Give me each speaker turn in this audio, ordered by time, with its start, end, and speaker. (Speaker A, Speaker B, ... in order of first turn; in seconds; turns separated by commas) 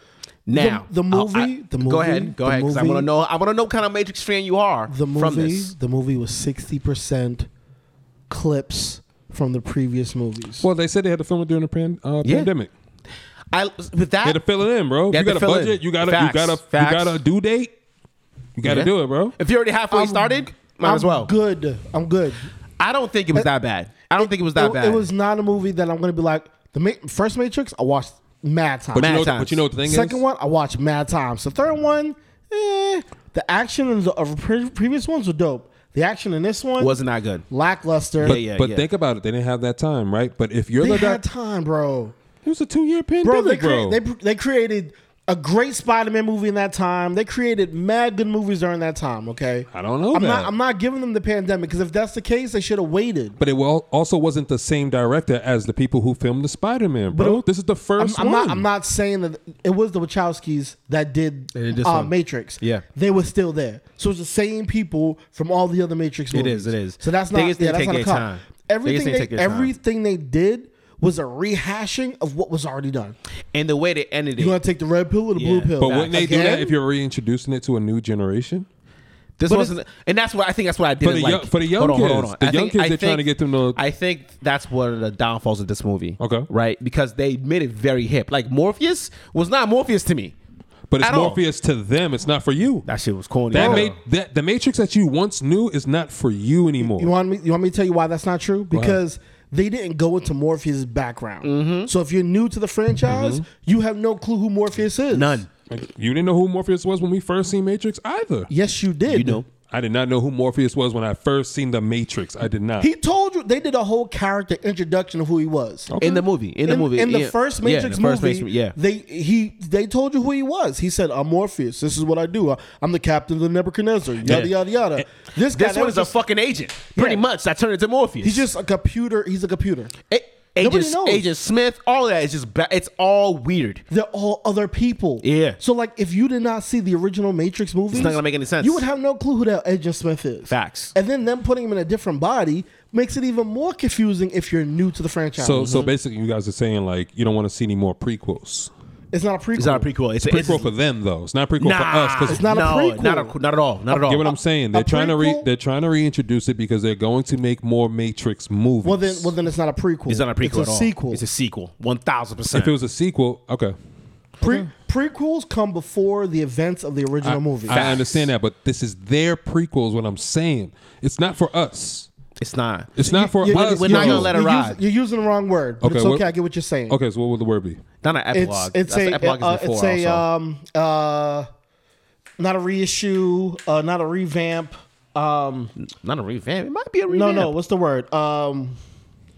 Speaker A: 0.5-5.7, Speaker B: 0.5-3.1, Speaker B: 4.9-7.5, Speaker B: 8.3-10.7, Speaker C: 10.6-12.7, Speaker A: 12.2-12.5, Speaker A: 13.5-14.4, Speaker C: 14.2-17.7, Speaker A: 15.1-17.2, Speaker C: 18.6-19.4, Speaker A: 18.6-21.3, Speaker B: 19.9-22.5, Speaker A: 22.8-25.1, Speaker B: 24.2-29.2, Speaker C: 28.9-30.2, Speaker A: 29.0-29.6, Speaker B: 29.8-37.0, Speaker A: 36.8-37.5, Speaker B: 37.5-38.4, Speaker A: 38.2-38.9, Speaker C: 38.2-41.2, Speaker B: 40.8-42.1, Speaker C: 42.4-44.0, Speaker B: 43.2-53.4, Speaker C: 49.7-50.5, Speaker C: 53.4-58.6, Speaker B: 57.1-57.5, Speaker B: 58.0-73.2, Speaker A: 61.5-62.8, Speaker A: 66.3-69.7, Speaker A: 73.5-74.6, Speaker B: 74.4-76.8, Speaker A: 75.3-76.6, Speaker C: 75.8-78.7, Speaker A: 79.4-90.3, Speaker B: 79.5-79.7, Speaker C: 81.0-83.8, Speaker C: 86.2-86.5, Speaker C: 90.9-92.9, Speaker A: 91.0-91.4, Speaker A: 92.9-94.0, Speaker C: 93.5-97.1, Speaker B: 93.5-93.9, Speaker B: 96.8-105.4, Speaker C: 98.7-99.0, Speaker A: 101.4-101.9, Speaker C: 103.1-103.4, Speaker A: 105.1-105.5, Speaker C: 105.7-108.5, Speaker B: 108.5-109.4, Speaker A: 109.1-109.5, Speaker C: 109.7-112.9, Speaker B: 112.8-115.9, Speaker C: 115.9-116.2, Speaker A: 116.0-118.8, Speaker B: 116.7-126.2, Speaker A: 124.2-124.5, Speaker A: 125.5-128.4, Speaker B: 127.0-127.2, Speaker B: 128.2-129.9, Speaker A: 130.1-133.8, Speaker B: 130.6-131.3, Speaker B: 133.9-145.8, Speaker A: 135.2-135.6, Speaker A: 137.9-138.8, Speaker A: 140.5-140.9, Speaker C: 145.4-148.7, Speaker A: 145.6-145.9, Speaker B: 149.1-149.9, Speaker A: 149.6-150.7, Speaker C: 150.3-152.5, Speaker A: 151.6-154.3, Speaker B: 152.3-153.3, Speaker C: 153.9-159.3, Speaker B: 154.7-155.5, Speaker B: 158.8-161.2, Speaker A: 160.1-162.7, Speaker C: 162.5-163.8, Speaker B: 164.4-167.8, Speaker C: 167.2-172.1, Speaker A: 167.7-168.3, Speaker A: 172.4-174.8, Speaker C: 173.0-174.3, Speaker B: 173.0-177.0, Speaker C: 175.8-176.3, Speaker C: 176.9-177.8, Speaker A: 178.0-180.2, Speaker B: 178.3-181.5, Speaker B: 182.4-185.7, Speaker A: 185.8-187.5, Speaker B: 187.1-188.8